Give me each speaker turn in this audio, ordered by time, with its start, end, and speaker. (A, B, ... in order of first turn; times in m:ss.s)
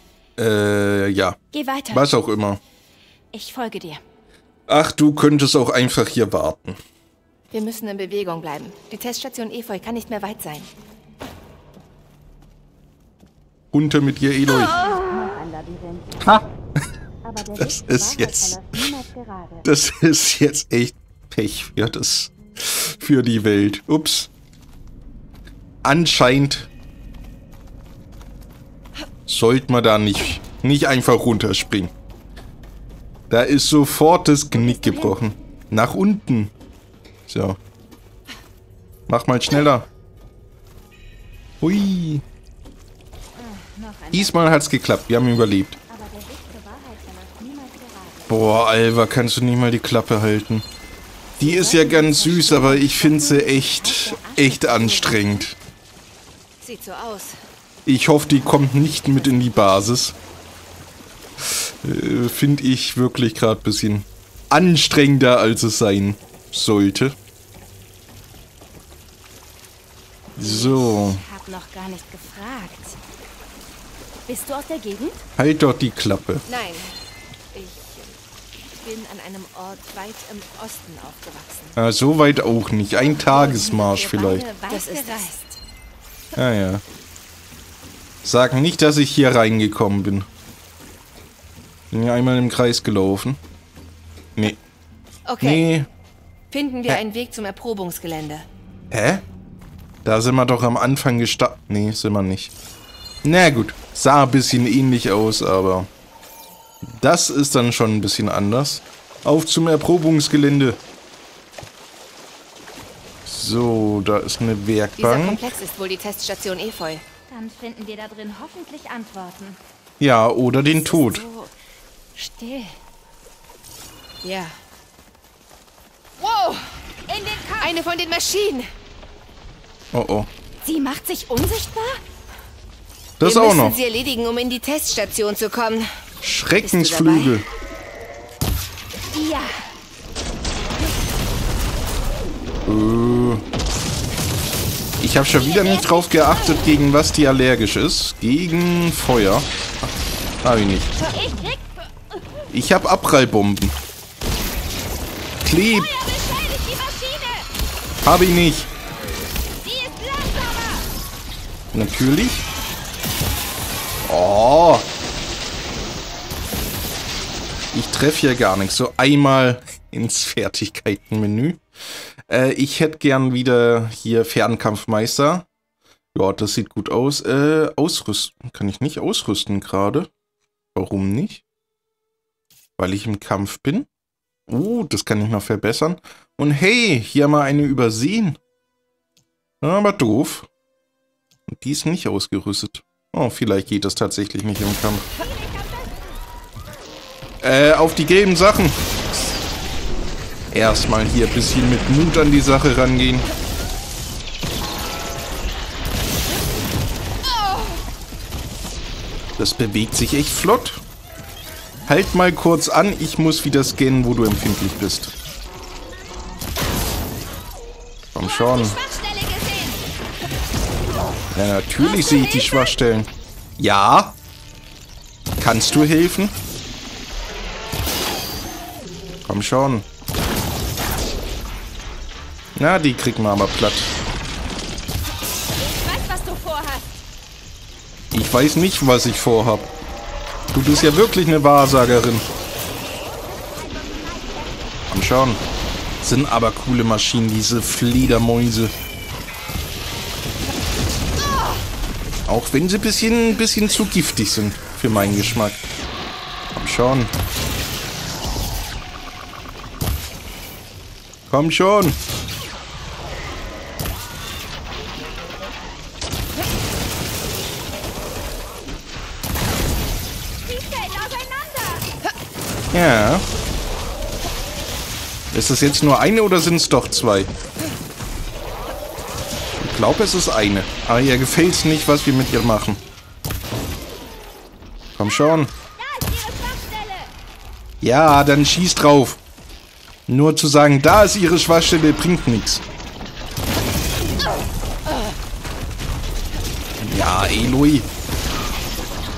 0:00.4-0:01.4 A
0:01.5-0:02.1 B
0:01.9-0:02.6 A
0:03.3-0:04.0 B
0:04.7-0:06.8 A
0:07.5-0:10.7 C
0:13.7-0:14.8 A
0:14.5-0:16.2 B
0:17.2-0:19.6 B
0:17.6-0:18.8 A
0:19.6-0:24.3 A
0:25.8-0:26.7 A
0:29.3-0:31.9 A
0:33.3-0:36.5 A
0:34.5-0:35.2 B
0:37.3-0:37.6 A
0:39.1-0:39.8 A
0:41.6-0:42.2 A
0:43.4-0:44.4 B
0:44.1-0:45.8 A
0:45.9-0:48.3 B
0:48.3-0:50.6 A
0:51.4-0:55.5 B
0:51.4-0:55.5 A
0:56.6-0:57.4 C
0:57.8-1:00.1 A
1:01.4-1:07.1 A
1:10.4-1:11.2 A
1:10.4-1:13.0 B
1:14.3-1:15.2 B
1:15.4-1:16.4 A
1:16.5-1:17.0 C
1:17.5-1:18.2 C
1:18.8-1:21.8 C
1:21.8-1:24.4 A
1:23.0-1:25.6 B
1:24.7-1:25.4 C
1:26.4-1:26.8 A
1:28.2-1:30.3 A
1:31.9-1:33.4 A
1:35.3-1:35.7 C
1:35.4-1:35.9 A
1:36.5-1:38.4 C
1:38.9-1:39.2 A
1:40.0-1:42.5 A
1:43.2-1:45.9 A
1:46.8-1:50.8 A
1:53.2-1:55.4 A
1:55.0-1:57.0 C
1:57.3-1:59.6 B
2:00.0-2:01.2 A
2:00.7-2:01.5 B
2:02.1-2:02.8 B
2:04.2-2:04.5 C
2:06.2-2:06.8 C
2:07.1-2:07.7 B
2:07.6-2:08.7 C
2:09.9-2:10.3 A
2:10.6-2:12.0 B
2:13.2-2:13.8 A
2:13.2-2:16.0 C
2:16.2-2:17.4 A
2:16.6-2:17.4 C
2:19.1-2:19.6 B
2:22.6-2:23.4 A
2:25.0-2:29.5 A
2:25.1-2:26.7 B
2:30.4-2:30.9 A
2:31.0-2:31.9 B
2:32.5-2:33.7 A
2:35.4-2:35.9 A
2:35.6-2:37.5 B
2:38.0-2:38.7 A
2:39.6-2:40.8 B
2:41.7-2:42.4 A
2:44.0-2:44.8 A
2:47.7-2:51.6 A
2:52.3-2:55.5 A
2:56.1-3:00.1 A
3:00.7-3:01.4 A
3:02.8-3:03.9 A
3:04.5-3:08.4 A
3:09.6-3:10.5 A
3:11.5-3:15.1 A
3:15.2-3:16.1 B
3:17.4-3:18.8 A
3:20.5-3:23.3 A
3:29.4-3:30.8 A
3:31.9-3:35.1 A
3:38.1-3:38.8 A
3:38.2-3:39.8 B
3:41.3-3:43.1 A
3:41.8-3:42.8 B
3:43.6-3:44.1 A
3:45.4-3:46.3 A
3:49.2-3:49.8 A
3:52.6-3:53.9 A
3:55.6-3:57.0 B
3:58.1-3:59.7 A
4:00.5-4:02.2 A
4:03.3-4:04.6 B
4:04.9-4:05.4 A
4:06.0-4:08.7 A
4:12.3-4:15.6 A
4:16.5-4:17.1 A
4:21.3-4:22.0 A
4:30.4-4:31.8 B
4:32.7-4:33.2 A
4:35.3-4:37.3 A
4:39.6-4:42.8 A
4:45.0-4:45.5 A
4:45.8-4:47.1 B
4:47.8-4:49.2 A
4:50.1-4:52.6 A
4:56.8-4:57.9 A